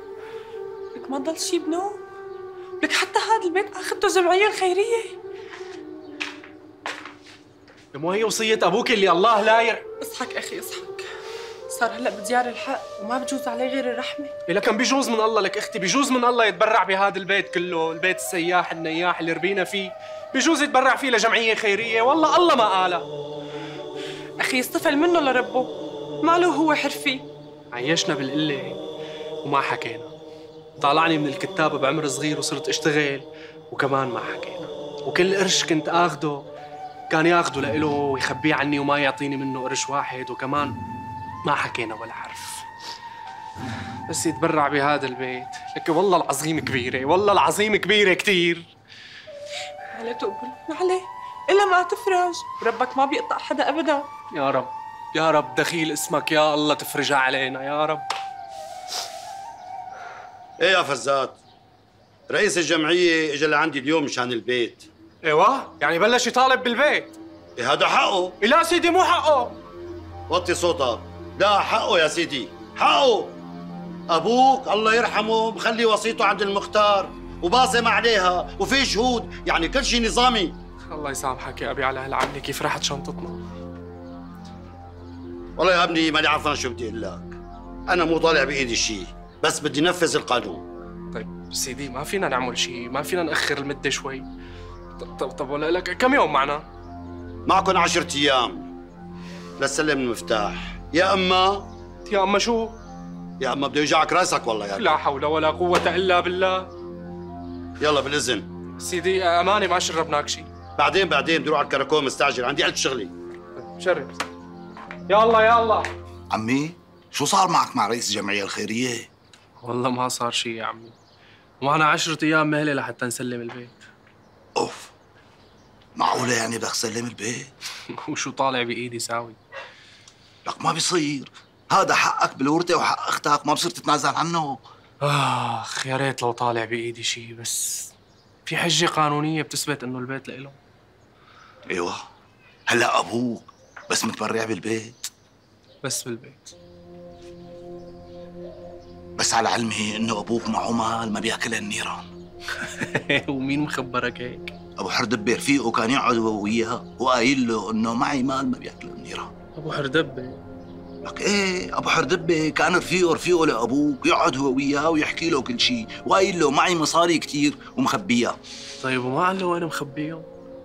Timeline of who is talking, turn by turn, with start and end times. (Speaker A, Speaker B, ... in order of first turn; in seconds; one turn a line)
Speaker A: 0.9-2.0
Speaker A: 2.8-5.1
Speaker B: 7.9-9.8
Speaker A: 10.0-11.0
Speaker A: 11.7-14.3
Speaker B: 14.5-23.1
Speaker A: 24.4-27.2
Speaker B: 27.7-28.8
Speaker B: 29.4-30.1
Speaker B: 30.8-36.5
Speaker B: 37.1-40.8
Speaker B: 41.5-42.7
Speaker B: 44.1-48.7
Speaker A: 49.9-54.1
Speaker B: 54.3-58.1
Speaker C: 60.6-61.4
Speaker C: 62.3-64.9
Speaker B: 65.2-67.1
Speaker C: 67.6-68.4
Speaker B: 68.4-69.6
Speaker C: 70.3-73.4
Speaker C: 74.1-80.5
Speaker B: 80.9-83.4
Speaker C: 85.6-87.3
Speaker C: 87.9-90.6
Speaker B: 91.1-94.3
Speaker B: 95.0-96.6
Speaker C: 97.5-98.7
Speaker C: 99.6-101.7
Speaker B: 102.0-102.8
Speaker C: 103.4-104.9
Speaker B: 104.7-106.7
Speaker C: 107.8-108.5
Speaker B: 108.8-110.5
Speaker C: 110.8-113.1
Speaker B: 113.5-114.2
Speaker B: 115.1-115.9
Speaker D: 116.3-119.1
Speaker B: 119.6-121.0
Speaker B: 121.6-123.8
Speaker D: 124.5-124.9
Speaker D: 126.0-127.5
Speaker B: 127.9-129.4
Speaker D: 130.5-134.6
Speaker B: 135.0-137.9
Speaker B: 138.5-140.6
Speaker D: 141.7-142.0
Speaker D: 142.7-145.0
Speaker B: 145.8-146.6
Speaker D: 149.2-152.1
Speaker B: 152.6-154.5
Speaker D: 154.8-159.3
Speaker B: 159.6-160.4
Speaker D: 161.0-168.4
Speaker B: 168.8-170.3